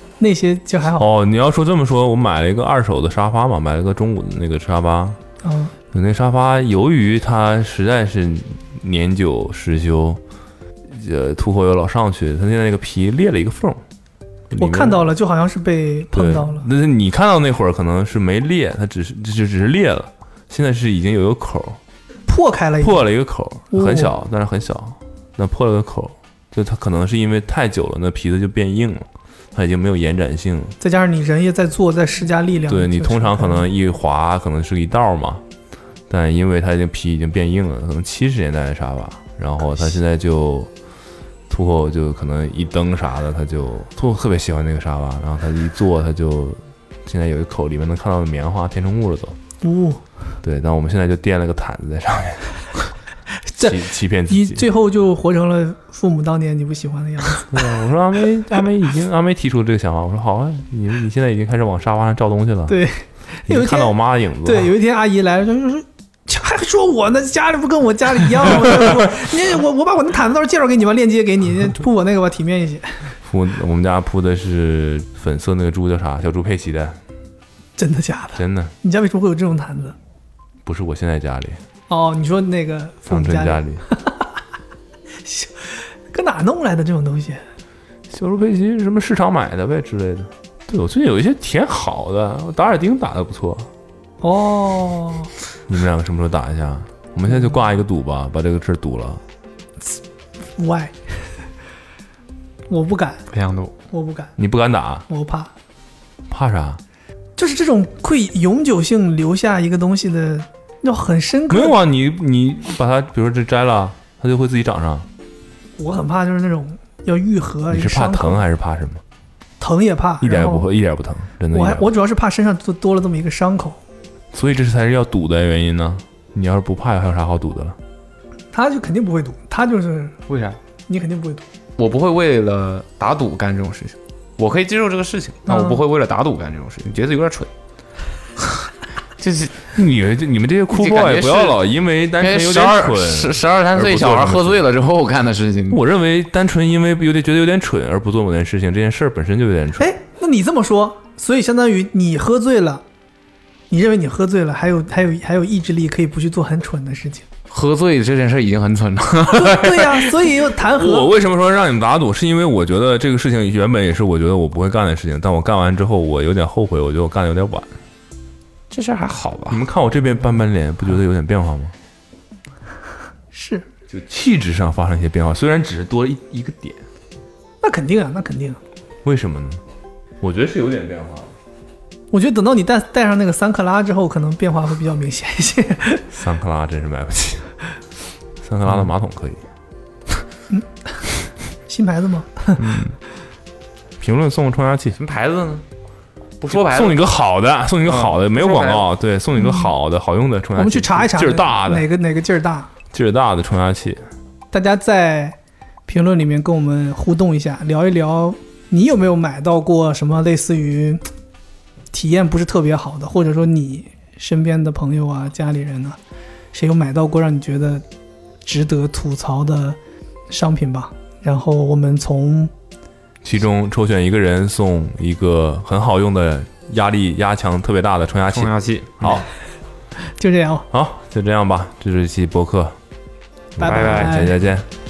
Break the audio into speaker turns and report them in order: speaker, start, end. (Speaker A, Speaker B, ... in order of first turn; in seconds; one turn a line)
Speaker A: 0.2-1.1
Speaker B: 0.9-5.2
Speaker A: 5.4-5.7
Speaker B: 5.9-10.2
Speaker B: 10.9-13.8
Speaker B: 14.5-15.1
Speaker A: 14.6-16.7
Speaker B: 16.1-21.8
Speaker A: 22.3-23.1
Speaker B: 22.8-30.8
Speaker A: 23.7-24.1
Speaker A: 30.8-33.6
Speaker B: 32.7-35.4
Speaker B: 36.1-40.7
Speaker B: 41.5-49.4
Speaker A: 49.6-50.0
Speaker B: 50.4-52.6
Speaker A: 53.5-57.7
Speaker B: 53.6-54.7
Speaker B: 57.5-62.8
Speaker A: 62.7-73.1
Speaker B: 63.5-64.7
Speaker B: 73.2-77.0
Speaker A: 77.8-80.0
Speaker B: 78.4-78.7
Speaker B: 80.7-81.6
Speaker A: 81.9-84.2
Speaker B: 83.1-83.8
Speaker A: 85.2-87.4
Speaker B: 88.1-93.7
Speaker A: 94.2-95.3
Speaker B: 95.7-99.2
Speaker A: 100.6-101.3
Speaker A: 102.7-103.2
Speaker C: 103.3-103.7
Speaker A: 103.9-104.3
Speaker B: 104.4-105.1
Speaker A: 105.1-105.5
Speaker B: 106.3-106.8
Speaker A: 107.4-111.8
Speaker B: 111.5-115.1
Speaker A: 115.8-118.4
Speaker B: 117.7-119.0
Speaker A: 119.6-120.7
Speaker B: 120.2-121.9
Speaker A: 121.5-123.8
Speaker B: 124.3-127.8
Speaker A: 128.5-130.2
Speaker C: 130.3-130.6
Speaker A: 130.9-131.4
Speaker C: 131.8-137.5
Speaker A: 135.5-135.8
Speaker C: 139.2-139.6
Speaker B: 139.7-144.7
Speaker C: 140.7-141.6
Speaker C: 142.2-145.8
Speaker B: 145.7-149.9
Speaker A: 149.8-152.8
Speaker A: 153.7-157.2
Speaker C: 157.5-160.3
Speaker A: 159.3-161.1
Speaker B: 160.7-167.7
Speaker C: 168.7-169.6
Speaker B: 169.5-171.7
Speaker A: 173.3-173.7
Speaker B: 173.9-176.8
Speaker A: 177.6-178.6
Speaker B: 179.0-179.6
Speaker B: 180.2-181.3
Speaker A: 182.1-186.1
Speaker B: 186.1-187.5
Speaker B: 188.4-189.4
Speaker A: 190.5-191.1
Speaker A: 191.7-192.7
Speaker C: 192.6-192.9
Speaker B: 194.0-195.0
Speaker C: 194.9-195.6
Speaker C: 196.4-197.0
Speaker B: 196.5-201.9
Speaker C: 197.9-198.8
Speaker A: 199.3-199.7
Speaker A: 200.6-202.7
Speaker B: 202.9-204.0
Speaker A: 204.5-205.4
Speaker A: 205.9-211.0
Speaker A: 211.9-216.0
Speaker A: 216.5-217.8
Speaker A: 218.4-219.8
Speaker A: 220.3-222.5
Speaker B: 223.2-229.2
Speaker C: 228.3-229.2
Speaker A: 230.2-230.7
Speaker B: 230.7-232.8
Speaker B: 233.6-234.7
Speaker A: 233.6-234.4
Speaker C: 233.6-234.3